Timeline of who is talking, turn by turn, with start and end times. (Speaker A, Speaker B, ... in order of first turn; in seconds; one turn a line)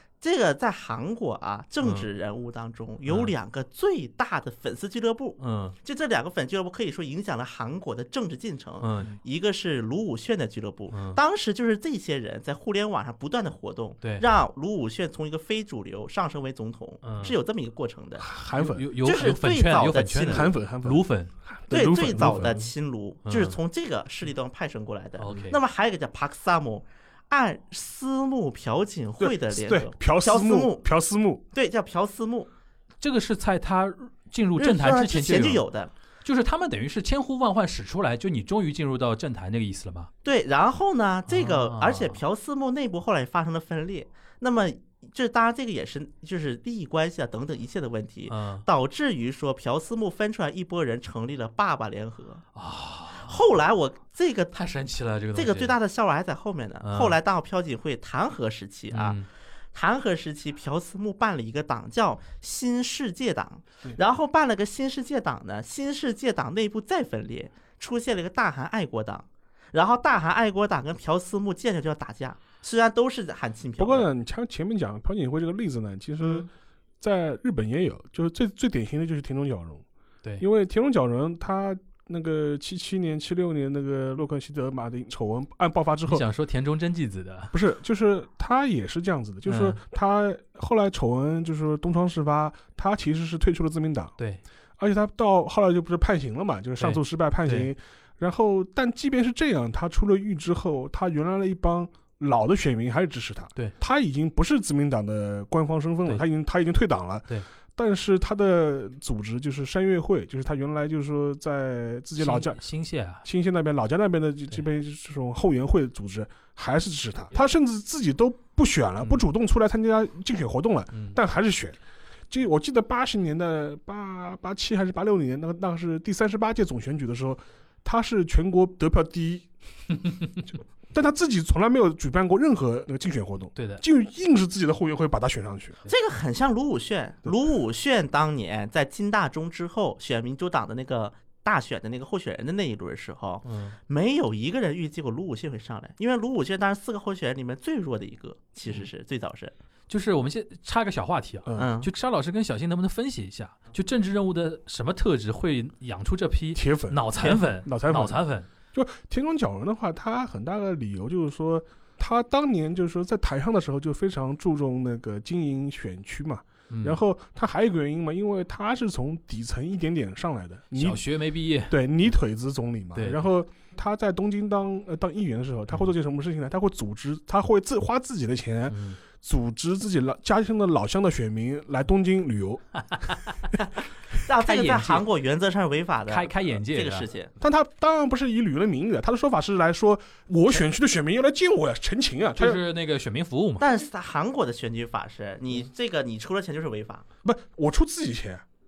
Speaker A: 0.2-18.3
Speaker B: 1.8-2.1
Speaker B: 3.1-3.3
Speaker B: 5.4-5.8
Speaker B: 8.8-9.2
Speaker B: 10.9-11.2
Speaker B: 17.0-17.4
Speaker C: 18.2-18.8
Speaker B: 18.6-21.3
Speaker A: 19.0-20.5
Speaker C: 20.3-22.7
Speaker A: 21.7-30.9
Speaker B: 23.2-23.6
Speaker B: 25.2-25.6
Speaker C: 29.2-31.4
Speaker A: 31.5-32.5
Speaker B: 33.0-35.6
Speaker A: 34.6-35.9
Speaker B: 36.2-40.1
Speaker A: 40.2-52.4
Speaker B: 41.3-42.2
Speaker B: 48.3-48.7
Speaker B: 52.5-53.4
Speaker A: 53.3-54.6
Speaker B: 54.5-55.8
Speaker A: 55.3-59.2
Speaker B: 56.8-57.2
Speaker B: 58.9-59.3
Speaker A: 59.7-74.1
Speaker C: 73.8-76.5
Speaker C: 77.0-79.8
Speaker C: 80.4-86.2
Speaker B: 86.1-87.5
Speaker C: 87.5-94.2
Speaker B: 89.5-89.8
Speaker C: 94.8-112.6
Speaker B: 96.8-97.7
Speaker B: 112.2-113.2
Speaker C: 113.2-121.8
Speaker B: 119.0-119.3
Speaker C: 122.3-129.5
Speaker C: 130.9-135.8
Speaker B: 133.6-133.8
Speaker A: 135.9-149.5
Speaker B: 143.4-143.8
Speaker B: 149.9-158.5
Speaker C: 151.4-151.7
Speaker A: 151.6-151.9
Speaker C: 156.6-158.2
Speaker C: 158.7-171.0
Speaker B: 166.7-167.0
Speaker B: 170.7-171.8
Speaker C: 171.7-182.8
Speaker B: 173.0-173.3
Speaker B: 178.7-179.0
Speaker B: 182.9-183.5
Speaker A: 184.2-187.3
Speaker B: 184.4-185.0
Speaker B: 186.1-187.1
Speaker C: 187.4-192.6
Speaker B: 192.4-193.7
Speaker A: 193.6-197.1
Speaker C: 197.2-198.4